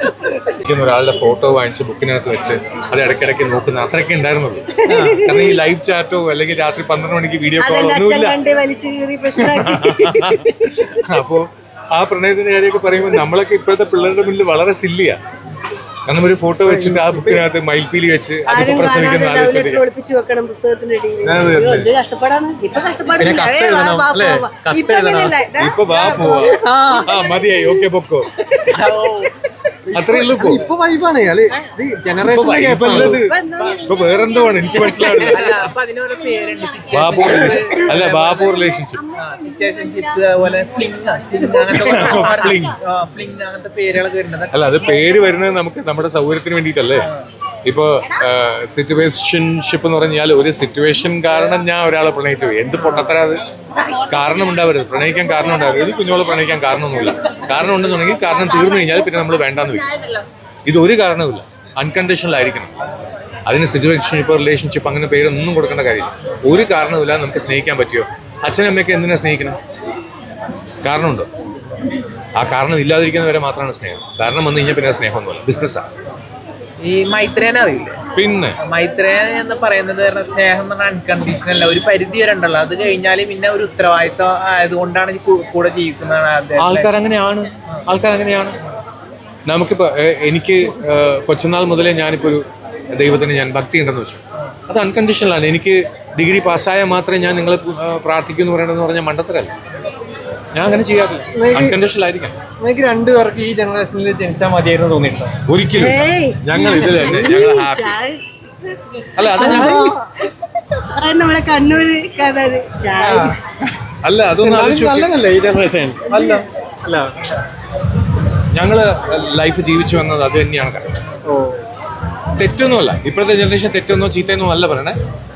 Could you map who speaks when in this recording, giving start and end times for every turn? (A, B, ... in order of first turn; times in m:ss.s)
0:00.5-0:08.4 A
0:04.8-0:05.5 B
0:04.9-0:05.2 C
0:07.6-0:11.0 B
0:09.4-0:15.2 A
0:16.1-0:19.8 A
0:16.6-0:17.4 B
0:18.5-0:27.9 B
0:21.2-0:21.9 A
0:23.2-0:28.3 A
0:26.6-0:27.1 D
0:28.6-0:29.1 B
0:28.7-0:29.3 C
0:29.9-0:33.3 D
0:29.9-0:30.6 A
0:32.2-0:35.5 A
0:32.8-0:34.2 B
0:34.7-0:38.6 C
0:36.9-0:39.0 A
0:39.2-0:44.5 C
0:41.7-0:42.8 A
0:44.5-0:47.1 A
0:47.6-0:53.4 A
0:54.1-1:02.7 A
1:03.4-1:09.6 A
1:10.8-1:11.3 A
1:12.4-1:15.9 A
1:16.8-1:18.0 C
1:18.1-1:18.6 A
1:18.6-1:26.9 C
1:26.6-1:28.6 A
1:29.5-1:39.5 A
1:40.5-1:42.4 A
1:41.3-1:41.8 D
1:42.6-1:45.3 D
1:45.5-1:48.0 A
1:45.7-1:48.2 B
1:49.2-1:49.8 A
1:49.2-1:50.1 D
1:49.4-1:50.0 B
1:50.8-1:53.4 B
1:53.0-1:53.3 D
1:54.0-1:55.1 A
1:54.4-1:57.2 D
1:56.1-1:56.4 B
1:58.5-2:01.0 A
2:01.3-2:01.6 D
2:02.4-2:05.0 A